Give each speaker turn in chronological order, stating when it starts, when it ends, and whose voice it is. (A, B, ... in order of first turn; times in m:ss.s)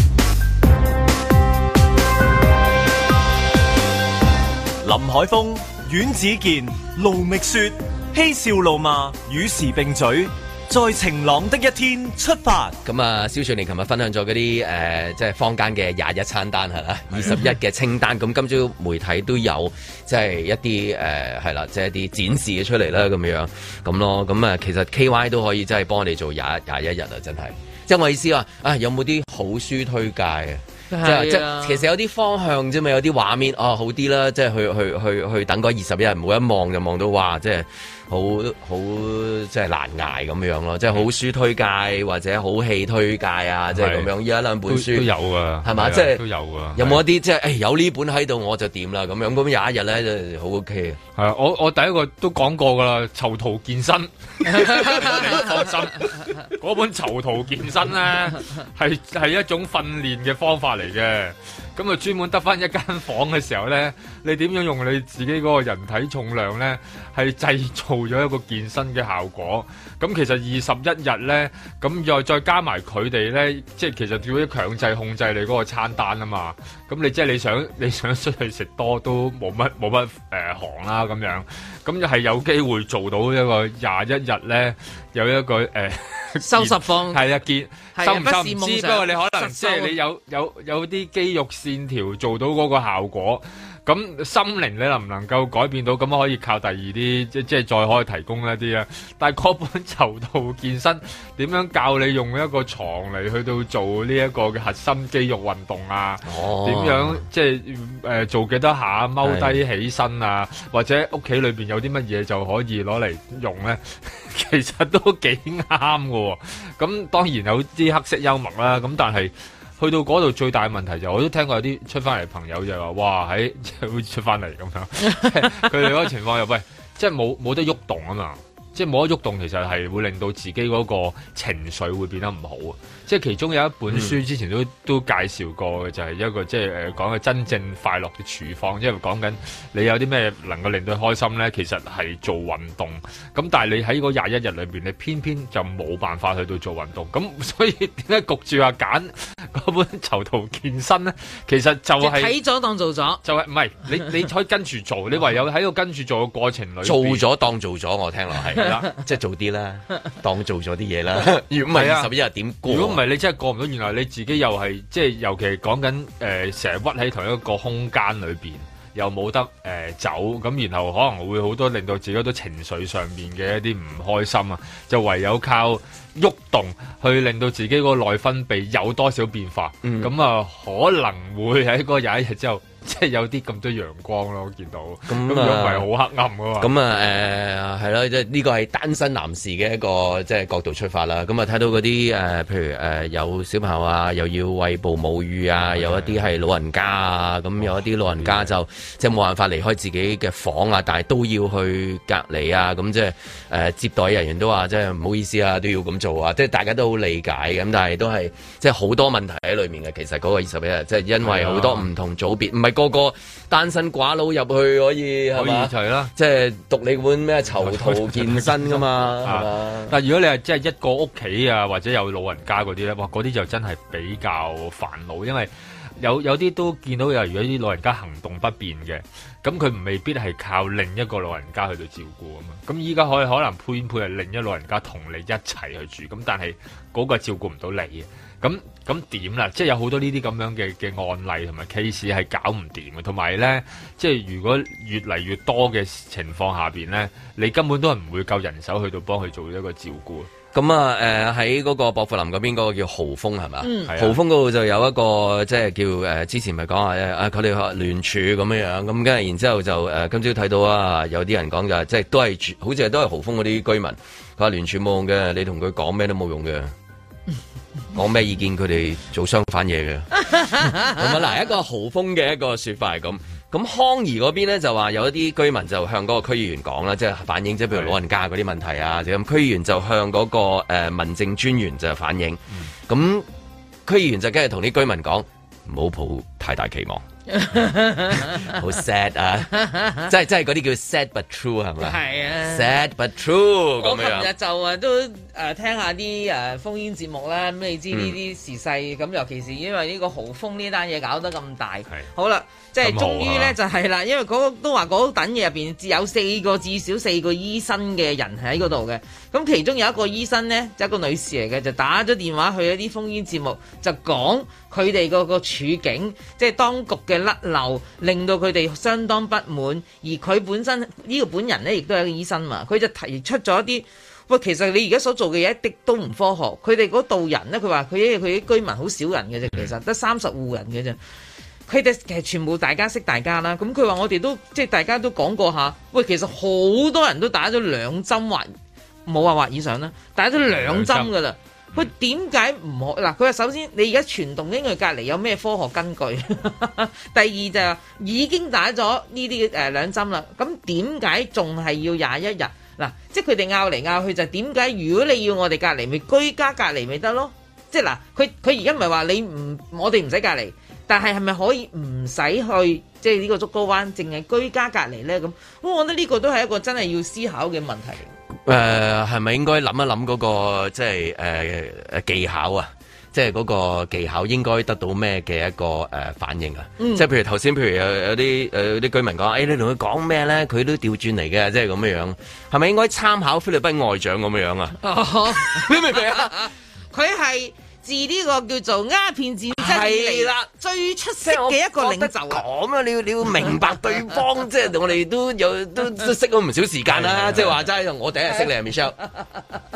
0:04.8-0:12.8 A
0:12.8-0:45.1 B
0:30.9-0:31.8 C
0:43.7-0:44.1 D
0:44.7-0:47.0 D
0:45.6-0:46.2 B
0:46.8-0:51.0 B
0:51.2-2:32.4 D
0:54.8-0:55.1 C
1:26.4-1:27.2 C
1:28.0-1:29.9 C
1:46.2-1:47.2 B
1:49.2-1:49.6 B
2:13.9-2:14.2 B
2:32.0-2:33.2 C
2:33.2-2:37.2 D
2:36.8-2:43.0 B
2:38.6-2:38.9 D
2:41.7-2:42.1 D
2:42.7-3:06.7 D
2:59.8-3:00.1 B
3:05.1-3:05.9 B
3:06.6-3:40.0 B
3:15.6-3:16.2 D
3:17.6-3:18.6 D
3:31.2-3:31.9 D
3:35.4-3:36.1 D
3:37.6-4:10.3 D
4:10.5-4:26.7 B
4:13.6-4:13.9 C
4:13.9-4:14.2 D
4:27.9-4:43.3 B
4:30.3-4:30.9 C
4:43.9-4:47.0 B
4:47.3-4:48.6 C
4:48.2-4:54.3 B
4:49.5-4:50.1 C
4:51.8-4:52.8 C
4:53.8-5:31.0 C
4:57.9-4:58.2 B
5:02.8-5:03.6 D
5:31.7-5:38.6 C
5:39.1-6:08.1 C
5:40.5-5:41.1 D
6:08.5-6:24.8 B
6:16.8-6:17.1 C
6:24.8-6:32.4 C
6:25.4-6:26.4 B
6:29.6-6:30.5 B
6:31.2-6:39.0 B
6:36.9-6:37.6 D